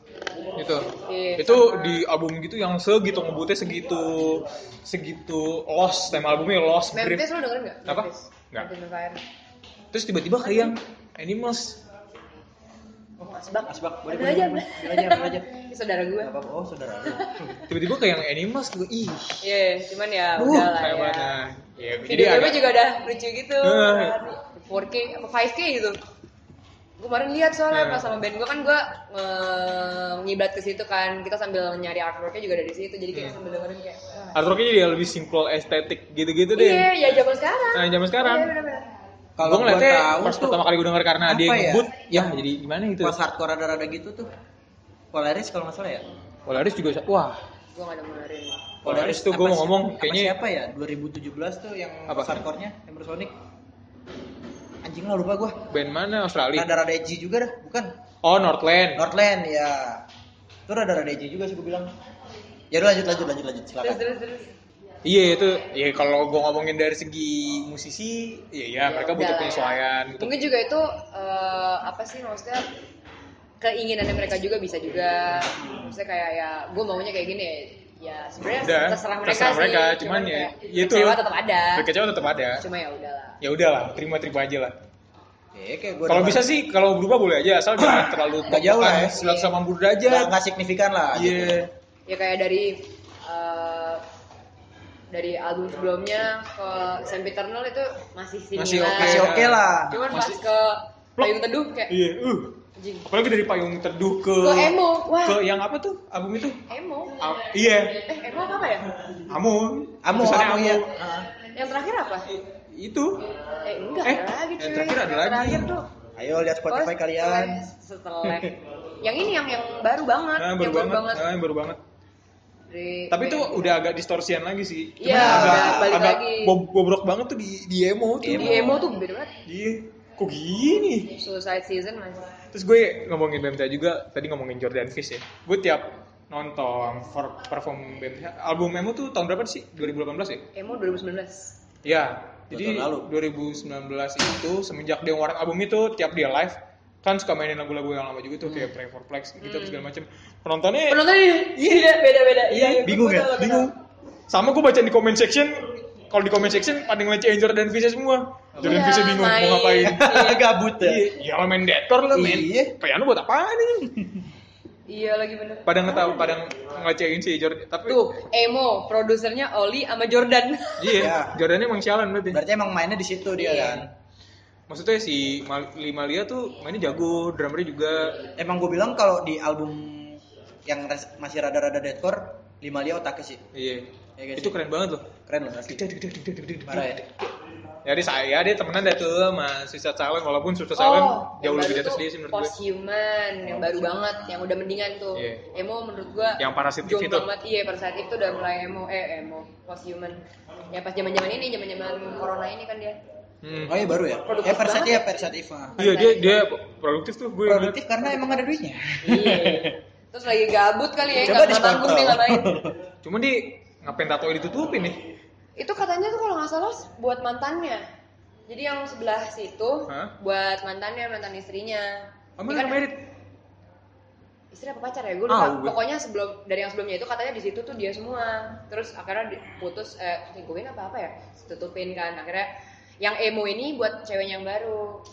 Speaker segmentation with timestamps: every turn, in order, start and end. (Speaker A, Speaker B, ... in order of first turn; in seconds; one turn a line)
Speaker A: 0.6-7.2
Speaker B: 0.9-2.0
Speaker B: 6.9-9.2
Speaker A: 7.9-8.7
Speaker A: 9.9-11.8
Speaker B: 10.4-10.7
Speaker B: 13.2-16.3
Speaker C: 13.7-15.5
Speaker C: 16.2-17.6
Speaker B: 17.1-17.6
Speaker A: 17.7-19.4
Speaker B: 19.4-21.3
Speaker A: 20.4-22.6
Speaker B: 22.1-26.0
Speaker A: 23.6-24.2
Speaker B: 27.0-34.4
Speaker A: 27.7-28.0
Speaker A: 34.3-38.5
Speaker B: 36.5-38.9
Speaker C: 39.4-40.6
Speaker A: 39.4-43.1
Speaker C: 41.2-42.4
Speaker C: 43.0-44.3
Speaker C: 45.1-46.0
Speaker A: 46.5-47.4
Speaker B: 47.7-48.7
Speaker A: 48.8-50.3
Speaker C: 48.8-53.3
Speaker A: 52.1-52.4
Speaker C: 54.8-55.6
Speaker A: 55.7-56.7
Speaker C: 56.5-57.9
Speaker A: 58.2-59.0
Speaker C: 59.0-60.0
Speaker C: 60.7-61.9
Speaker C: 62.7-64.0
Speaker B: 63.8-64.5
Speaker A: 65.0-70.3
Speaker B: 68.8-72.6
Speaker B: 73.6-81.9
Speaker C: 75.6-75.9
Speaker A: 78.6-81.2
Speaker A: 81.7-82.6
Speaker B: 82.6-83.4
Speaker A: 83.4-84.7
Speaker C: 85.5-86.5
Speaker A: 86.1-90.3
Speaker C: 87.8-89.2
Speaker B: 89.1-89.5
Speaker C: 90.0-91.7
Speaker A: 91.1-91.7
Speaker B: 92.1-94.0
Speaker B: 95.1-99.4
Speaker A: 98.5-100.4
Speaker C: 98.9-100.0
Speaker B: 99.9-101.9
Speaker A: 101.9-106.6
Speaker B: 102.8-103.1
Speaker B: 104.4-105.4
Speaker B: 106.7-108.9
Speaker A: 107.2-108.0
Speaker A: 109.3-110.9
Speaker C: 110.0-111.3
Speaker B: 111.5-112.3
Speaker A: 112.3-113.2
Speaker B: 113.6-115.9
Speaker A: 114.0-115.8
Speaker C: 116.2-117.6
Speaker B: 116.7-121.2
Speaker C: 118.2-118.5
Speaker A: 120.4-121.8
Speaker B: 122.7-123.7
Speaker A: 123.1-128.9
Speaker B: 125.0-126.5
Speaker C: 125.0-126.0
Speaker C: 128.2-128.8
Speaker B: 128.3-129.3
Speaker A: 129.4-131.1
Speaker B: 131.1-132.3
Speaker A: 132.5-140.4
Speaker B: 140.5-141.6
Speaker A: 141.8-151.0
Speaker C: 142.5-143.1
Speaker C: 148.4-148.7
Speaker B: 149.4-149.9
Speaker B: 150.9-153.7
Speaker A: 152.5-153.7
Speaker C: 152.8-153.5
Speaker A: 154.3-160.0
Speaker C: 158.5-158.9
Speaker B: 158.6-160.4
Speaker C: 159.9-161.1
Speaker A: 160.8-164.2
Speaker C: 162.1-162.7
Speaker B: 164.9-166.3
Speaker A: 165.7-168.0
Speaker B: 167.9-171.0
Speaker A: 170.8-172.4
Speaker C: 170.9-171.4
Speaker C: 172.3-173.9
Speaker B: 173.4-173.8
Speaker A: 174.7-178.3
Speaker C: 178.3-183.4
Speaker A: 183.5-185.1
Speaker C: 184.2-184.6
Speaker C: 185.2-185.8
Speaker A: 185.7-187.3
Speaker C: 186.7-187.0
Speaker A: 187.8-192.5
Speaker B: 190.8-203.0
Speaker C: 193.4-194.5
Speaker A: 195.1-195.4
Speaker A: 196.4-197.3
Speaker A: 203.4-203.9
Speaker C: 203.7-205.9
Speaker B: 204.2-205.2
Speaker B: 205.8-206.4
Speaker A: 205.8-208.4
Speaker C: 207.4-209.8
Speaker B: 209.0-212.5
Speaker C: 211.1-212.8
Speaker A: 213.0-215.0
Speaker B: 215.6-217.8
Speaker B: 218.5-222.9
Speaker A: 222.4-223.0
Speaker B: 224.5-235.0
Speaker A: 225.3-225.8